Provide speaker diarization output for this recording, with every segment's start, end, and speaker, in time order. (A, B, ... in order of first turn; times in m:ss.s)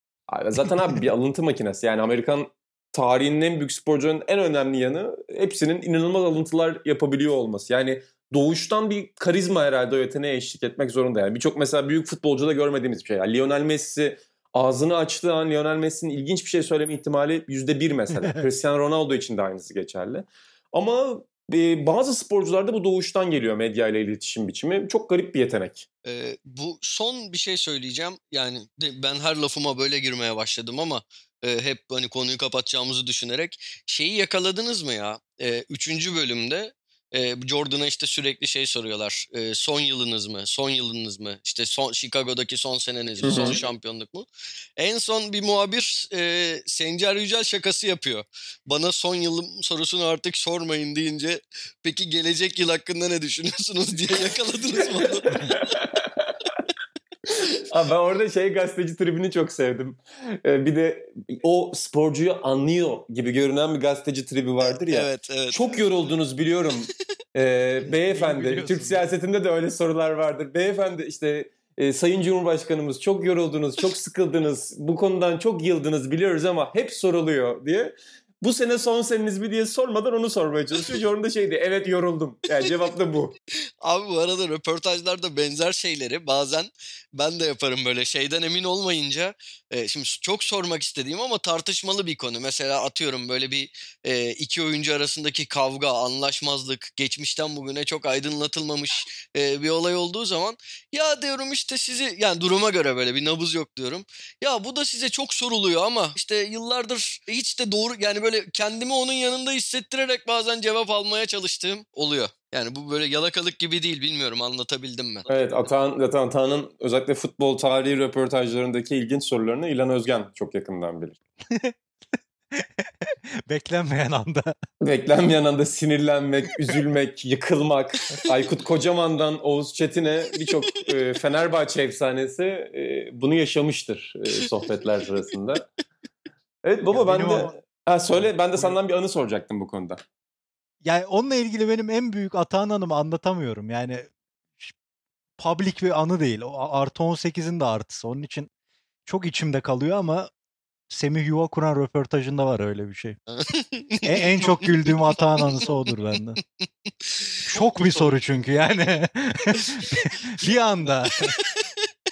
0:00.3-0:25.8 A
0:26.0-0:44.3 B
0:43.2-0:43.6 A
0:44.8-0:55.5 B
0:55.6-0:56.3 A
0:57.6-1:23.4 A
1:04.6-1:05.8 B
1:07.8-1:09.1 C
1:23.8-1:55.3 B
1:55.3-2:01.2 A
2:02.5-2:04.5 C
2:04.8-2:15.6 A
2:16.6-2:20.0 A
2:16.9-2:17.5 C
2:18.1-2:18.8 C
2:20.8-2:24.7 C
2:25.4-2:28.5 C
2:29.0-2:30.3 C
2:30.9-2:33.2 C
2:33.3-2:35.8 B
2:34.0-2:36.4 C
2:36.9-2:38.1 B
2:37.4-2:41.3 C
2:41.2-2:41.9 B